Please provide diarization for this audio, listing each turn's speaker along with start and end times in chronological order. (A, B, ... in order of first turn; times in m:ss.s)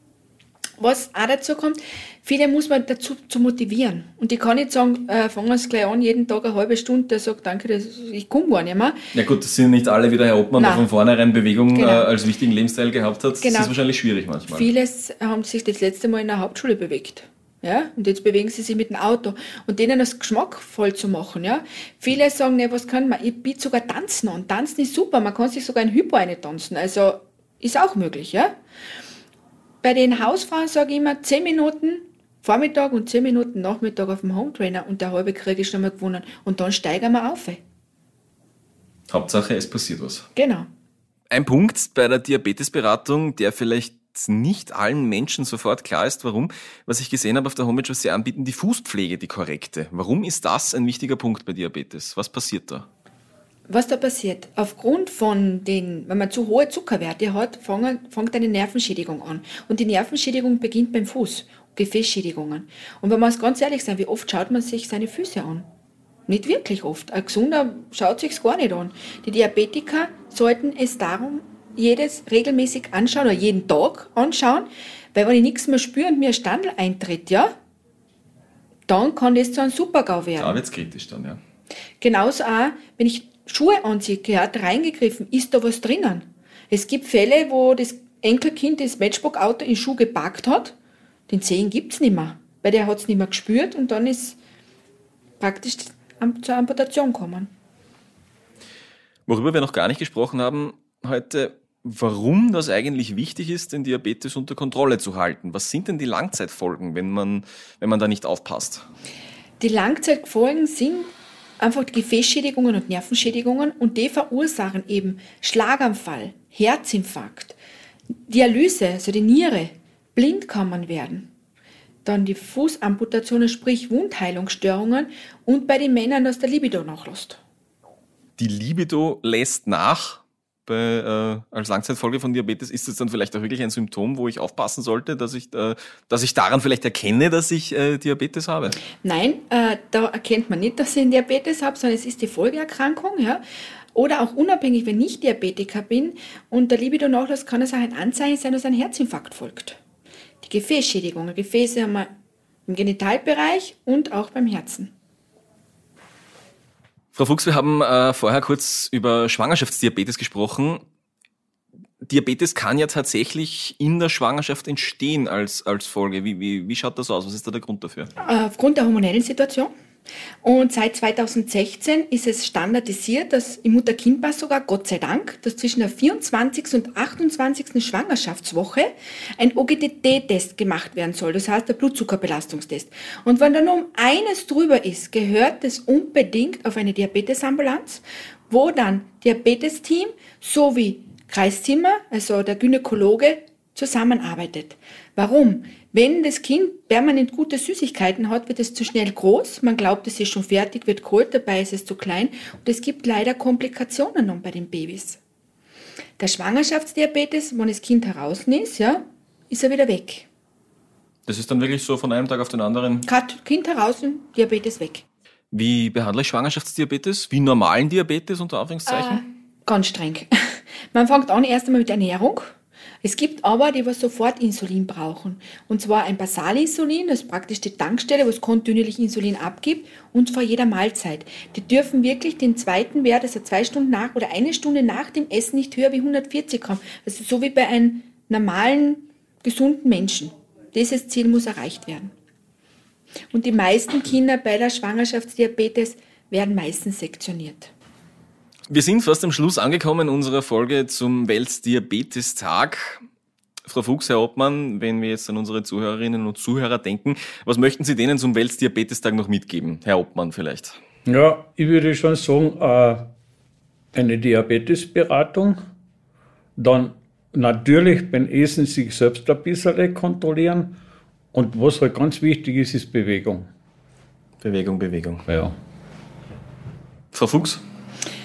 0:00.8-0:09.0 A
0:09.1-0:14.7 B
0:10.6-0:10.9 A
0:11.7-0:12.1 A
0:13.4-0:13.7 A
0:14.5-0:28.5 A
0:29.8-0:37.6 A
0:39.1-0:40.3 B
0:40.4-0:40.7 A
0:41.3-0:52.9 B
0:53.7-1:05.7 A
1:06.3-1:17.5 A
1:18.9-1:20.6 A
1:20.4-1:21.4 B
1:22.0-1:30.8 A
1:31.3-1:34.4 A
1:35.4-1:37.5 A
1:39.3-1:48.9 B
1:49.6-1:57.6 A
1:58.3-2:01.3 A
2:02.0-2:07.4 A
2:08.4-2:18.8 B
2:19.0-2:23.4 A
2:24.0-2:29.8 A
2:30.4-2:32.1 A
2:32.7-2:34.9 A
2:37.1-2:40.8 B
2:42.0-2:48.1 B
2:48.2-2:49.7 A
2:50.4-3:25.2 A
3:26.2-3:30.3 A
3:31.3-3:33.1 B
3:33.1-3:35.0 A
3:35.5-3:39.2 B
3:38.9-4:02.1 A
4:03.3-4:07.7 A
4:08.7-4:13.0 B
4:13.7-4:20.8 B
4:21.1-4:23.1 C
4:23.9-4:25.6 C
4:26.6-4:30.8 C
4:31.3-4:33.5 C
4:34.4-4:35.2 B
4:35.3-4:35.6 C
4:37.1-4:37.6 B